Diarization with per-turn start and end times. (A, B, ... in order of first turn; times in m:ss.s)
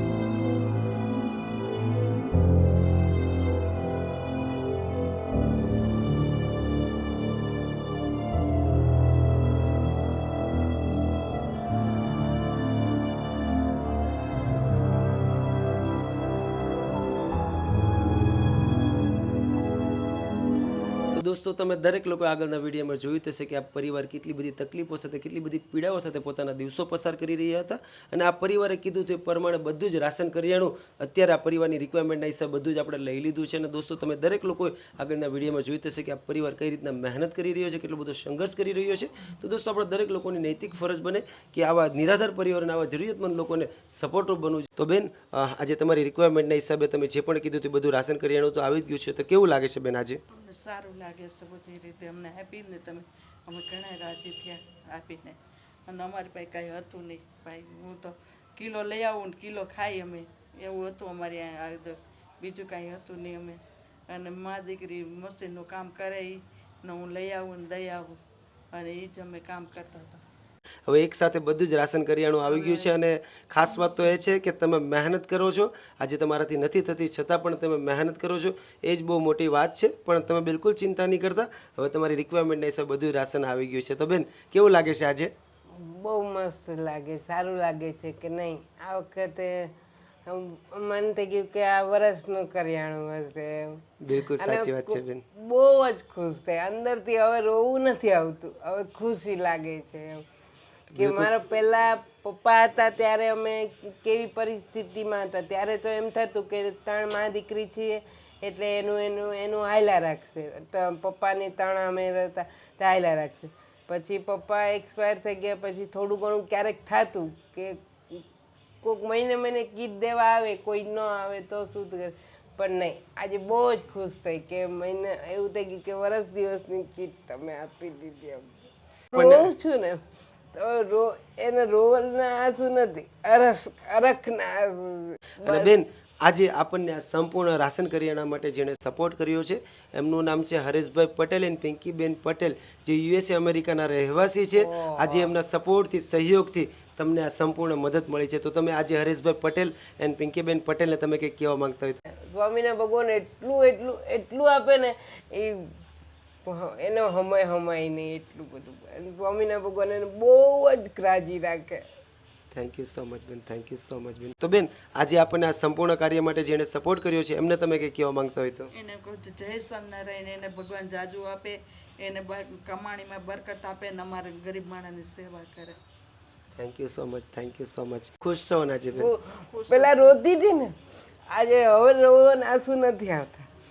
0:21.1-0:50.2 A
0:50.3-1:08.2 B
1:08.7-1:10.2 B
1:10.9-1:25.3 A
1:12.5-1:12.9 B
1:25.7-1:29.7 C
1:30.2-1:40.2 C
1:34.0-1:35.2 A
1:40.9-1:41.4 A
1:40.9-1:58.2 C
1:58.8-2:08.5 C
2:09.1-2:10.0 C
2:09.1-2:09.5 A
2:10.5-2:15.7 C
2:15.4-2:32.0 A
2:24.6-2:25.3 C
2:32.1-2:35.7 C
2:36.4-2:41.8 C
2:42.5-2:48.7 A
2:48.7-2:55.8 B
2:56.6-2:59.1 A
2:58.9-3:00.7 C
2:59.5-3:00.2 B
3:01.3-3:03.5 C